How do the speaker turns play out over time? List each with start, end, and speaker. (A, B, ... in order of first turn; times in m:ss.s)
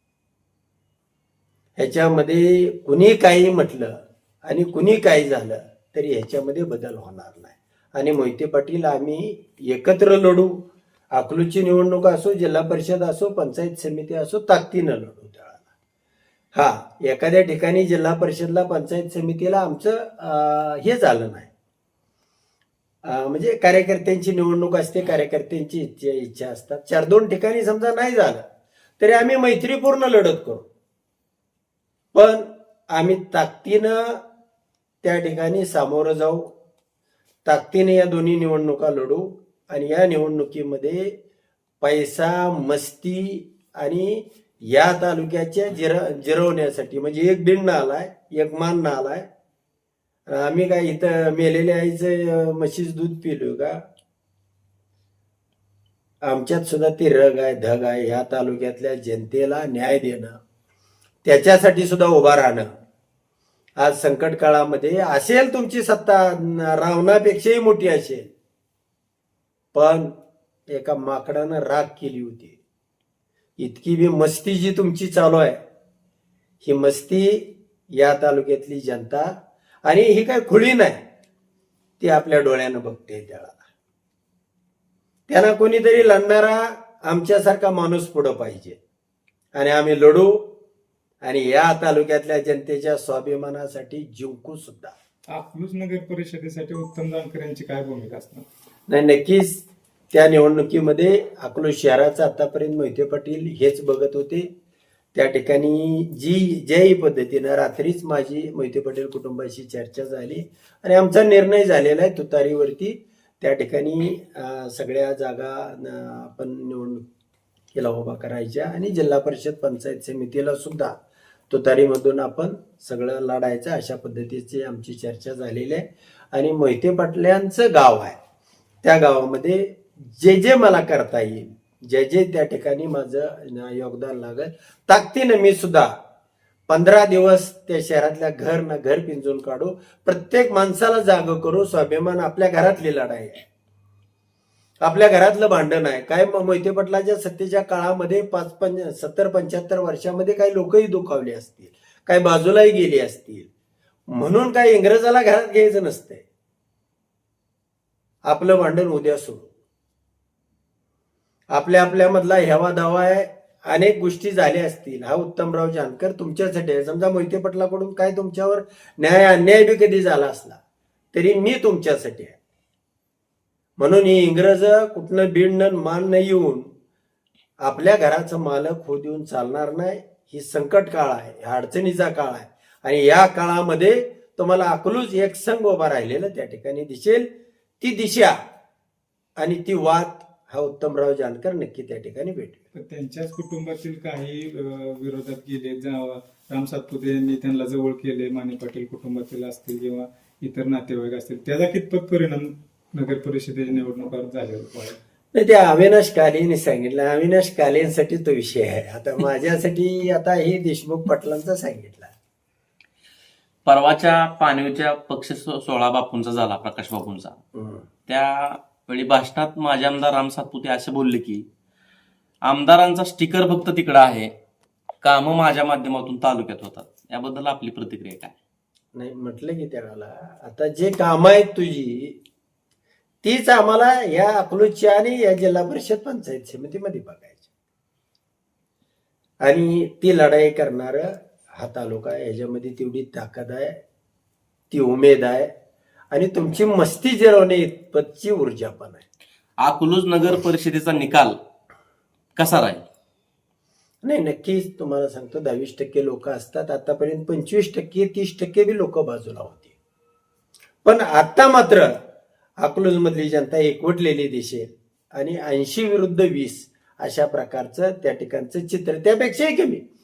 0:01.8-0:15.6 A
0:16.6-0:21.5 A
0:23.0-0:28.4 A
0:29.0-0:30.7 A
0:32.1-0:34.2 A
0:35.0-0:36.5 A
0:37.4-0:41.2 A
0:41.8-0:49.3 A
0:50.3-0:53.8 A
0:56.2-1:00.4 A
1:01.2-1:02.7 A
1:03.8-1:08.3 A
1:09.7-1:10.2 A
1:10.7-1:12.6 A
1:13.6-1:15.6 A
1:16.6-1:19.3 A
1:19.8-1:21.0 A
1:22.0-1:23.6 A
1:25.3-1:28.8 A
1:29.6-1:30.5 A
1:31.2-1:35.0 A
1:35.3-1:38.4 B
1:38.9-1:44.5 A
1:45.1-1:57.0 A
1:57.7-2:01.0 A
2:01.5-2:08.2 A
2:08.8-2:15.9 A
2:16.7-2:23.4 A
2:24.8-2:33.5 A
2:34.1-2:36.2 A
2:38.2-2:39.5 A
2:41.5-2:50.6 A
2:51.1-2:52.4 A
2:53.8-2:56.7 A
2:57.6-3:08.4 A
3:09.4-3:12.6 A
3:12.7-3:25.0 B
3:25.3-3:32.1 A
3:33.7-3:37.4 C
3:37.6-3:37.9 A
3:38.1-3:41.4 C
3:42.4-3:44.3 C
3:45.0-3:48.3 C
3:48.9-3:52.2 A
3:53.2-3:57.5 A
3:59.4-4:03.8 A
4:04.7-4:05.5 A
4:06.1-4:09.0 A
4:09.6-4:11.4 C
4:12.4-4:12.8 C
4:14.0-4:19.7 A
4:20.8-4:21.9 A
4:22.6-4:29.8 A